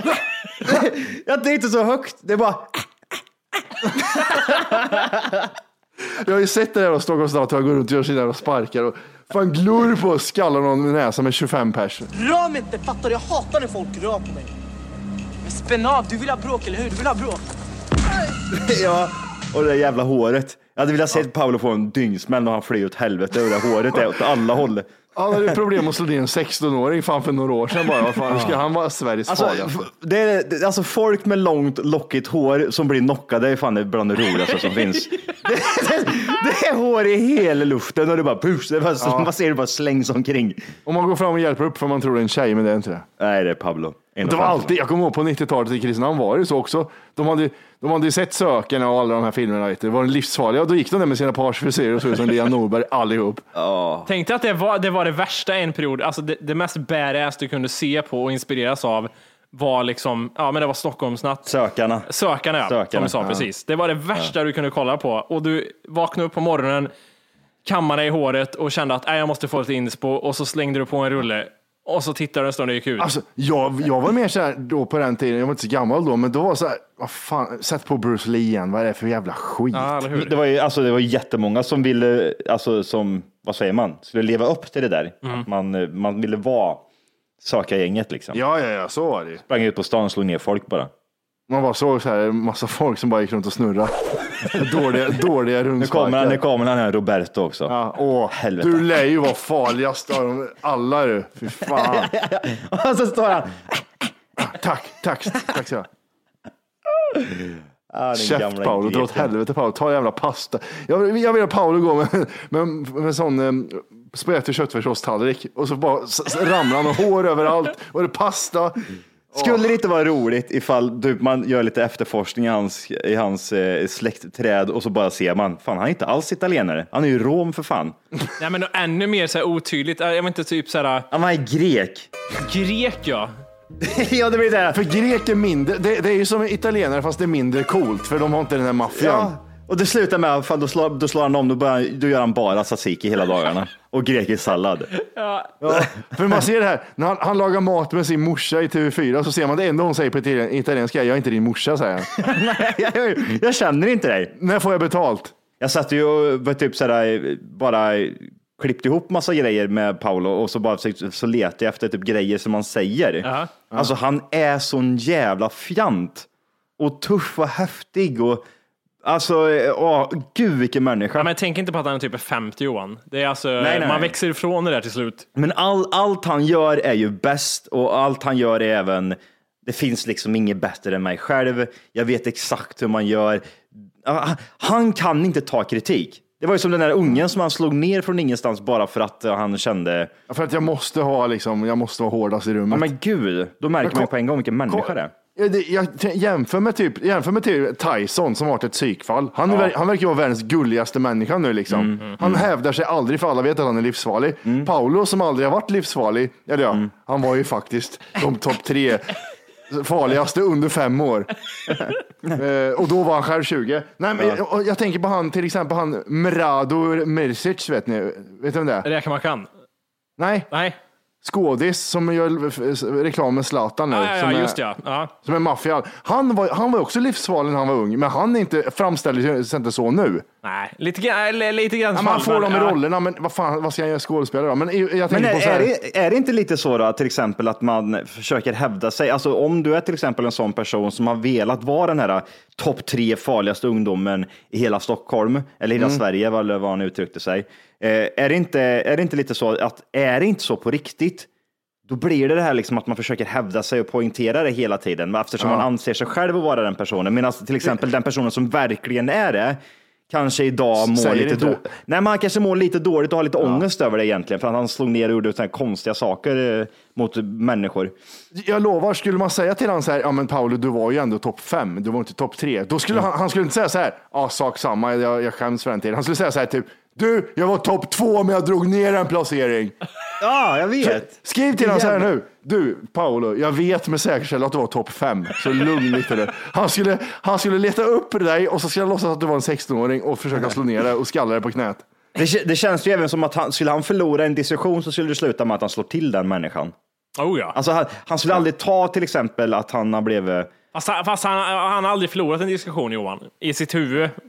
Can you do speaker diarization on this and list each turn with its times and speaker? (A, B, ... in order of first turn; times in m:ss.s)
0:00.6-0:02.8 A
0:03.9-0:05.4 A
0:06.2-0:12.1 B
0:12.2-0:14.5 C
0:15.4-0:17.4 C
0:18.5-0:24.9 A
0:25.2-0:29.8 B
0:28.3-0:28.6 A
0:29.3-0:40.6 A
0:39.0-0:39.3 B
0:40.9-0:43.1 B
0:43.2-0:44.8 A
0:44.2-0:53.4 B
0:53.6-0:54.1 A
0:54.1-1:01.5 D
1:01.5-1:02.1 A
1:02.1-1:06.9 D
1:02.6-1:03.4 A
1:07.6-1:13.1 D
1:13.0-1:20.0 B
1:19.7-1:20.4 D
1:20.1-1:26.8 A
1:27.4-1:28.4 A
1:28.3-1:29.4 B
1:29.5-1:30.9 A
1:31.5-1:36.4 B
1:35.8-1:37.8 A
1:37.7-1:42.1 B
1:38.3-1:38.9 A
1:41.8-1:44.1 A
1:44.4-1:45.9 B
1:47.1-1:49.3 A
1:48.1-1:58.8 B
1:59.3-1:59.6 B
1:59.3-2:08.0 A
2:08.4-2:11.1 D
2:11.1-2:12.1 A
2:12.4-2:13.3 D
2:13.8-2:14.8 A
2:14.7-2:19.4 B
2:19.0-2:24.9 A
2:25.0-2:25.5 D
2:25.6-2:32.1 B
2:32.1-2:34.3 A
2:34.4-2:35.4 B
2:35.6-2:46.3 A
2:43.2-2:43.5 D
2:46.8-2:48.4 A
2:49.0-2:51.3 A
2:51.2-2:55.3 D
2:53.6-2:54.1 A
2:55.4-3:10.1 A
3:10.3-3:12.9 B
3:12.7-3:15.1 A
3:13.8-3:14.1 B
3:14.7-3:29.2 B
3:21.7-3:22.4 A
3:29.7-3:31.3 B
3:31.7-3:32.3 A
3:32.4-3:38.9 B
3:38.8-3:39.5 D
3:40.2-3:40.5 B
3:40.5-3:40.8 D
3:41.2-3:44.6 B
3:43.9-3:45.1 D
3:45.2-3:50.2 B
3:50.4-3:52.8 D
3:52.0-3:55.7 B
3:55.1-4:11.3 A
4:11.9-4:27.9 A
4:15.4-4:15.7 B
4:20.8-4:21.6 B
4:23.4-4:23.6 B
4:28.3-4:39.8 B
4:40.2-4:42.1 A
4:40.8-4:51.9 B
4:52.2-4:56.7 A
4:57.2-4:57.6 D
4:57.6-5:00.5 A
5:00.7-5:04.2 D